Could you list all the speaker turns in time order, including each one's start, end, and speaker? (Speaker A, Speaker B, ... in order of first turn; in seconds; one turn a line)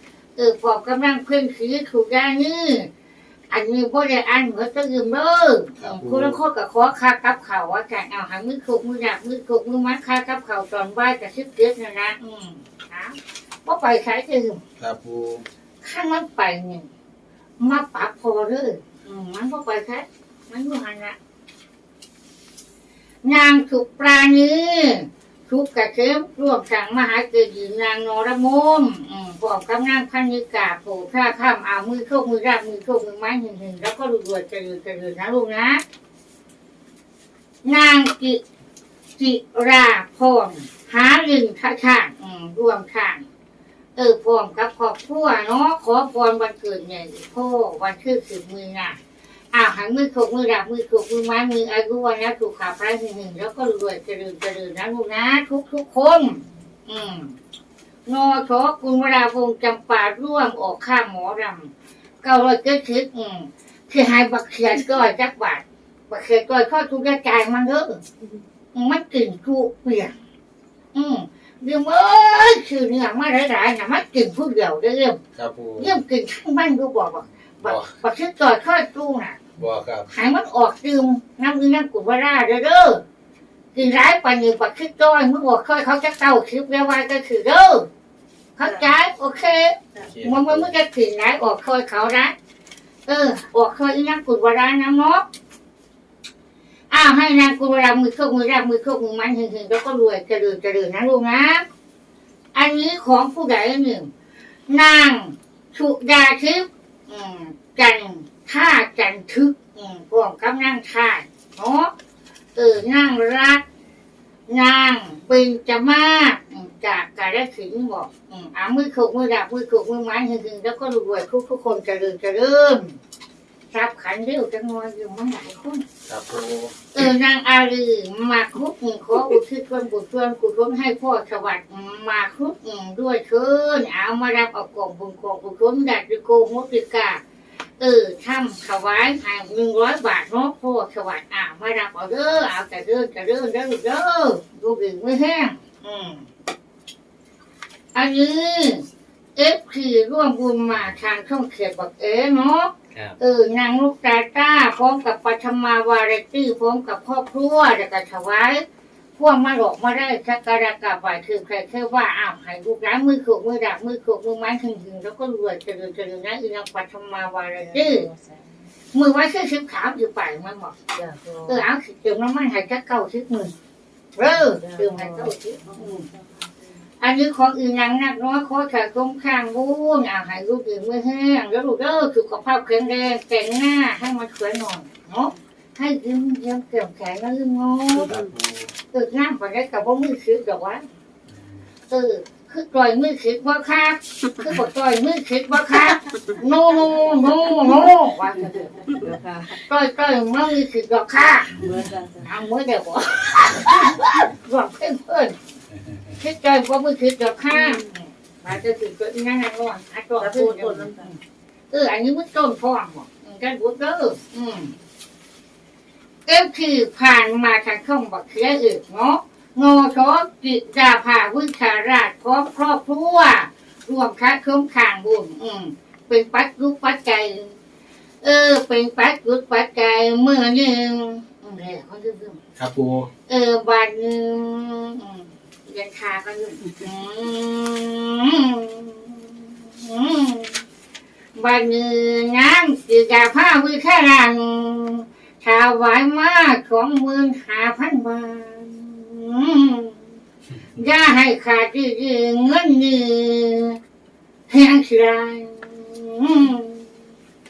Speaker A: 0.4-2.9
Speaker A: 3.5-14.6
Speaker B: 5.8-6.4
Speaker B: 14.8-15.4
Speaker A: 15.8-16.9
Speaker A: 17.6-21.2
Speaker A: 23.2-35.8
Speaker A: 37.6-38.4
Speaker A: 39.2-43.2
Speaker A: 44.0-49.0
Speaker A: 49.5-57.4
Speaker A: 58.0-61.7
Speaker A: 62.2-68.0
Speaker A: 68.7-70.2
Speaker A: 70.9-75.2
Speaker B: 75.3-76.0
Speaker A: 75.8-79.4
Speaker B: 77.6-77.9
Speaker B: 79.6-80.1
Speaker A: 80.1-83.0
Speaker A: 83.7-87.9
Speaker A: 88.6-92.3
Speaker C: 88.6-88.9
Speaker B: 89.9-90.7
Speaker A: 93.0-95.2
Speaker A: 96.9-101.7
Speaker A: 102.5-104.1
Speaker A: 104.7-111.9
Speaker A: 112.5-113.6
Speaker A: 114.5-123.0
Speaker A: 123.7-125.8
Speaker B: 126.0-126.7
Speaker A: 126.9-137.2
Speaker A: 137.8-146.3
Speaker A: 147.9-158.6
Speaker A: 159.2-168.1
Speaker C: 167.6-168.6
Speaker A: 168.9-170.7
Speaker C: 170.9-171.6
Speaker A: 171.4-173.5
Speaker A: 174.2-176.1
Speaker C: 174.2-176.8
Speaker A: 177.0-188.1
Speaker B: 188.1-188.7
Speaker A: 188.9-190.8
Speaker B: 191.3-191.6
Speaker A: 191.9-198.8
Speaker C: 198.7-199.6
Speaker A: 199.6-201.6
Speaker C: 201.6-202.2
Speaker B: 201.6-201.8
Speaker A: 202.2-205.4
Speaker A: 206.2-211.2
Speaker C: 207.5-207.9
Speaker C: 210.2-211.1
Speaker A: 211.7-214.7
Speaker A: 216.3-227.5
Speaker A: 228.2-232.4
Speaker B: 232.6-233.1
Speaker A: 233.3-240.6
Speaker A: 241.3-250.0
Speaker A: 250.8-253.8
Speaker A: 254.5-256.9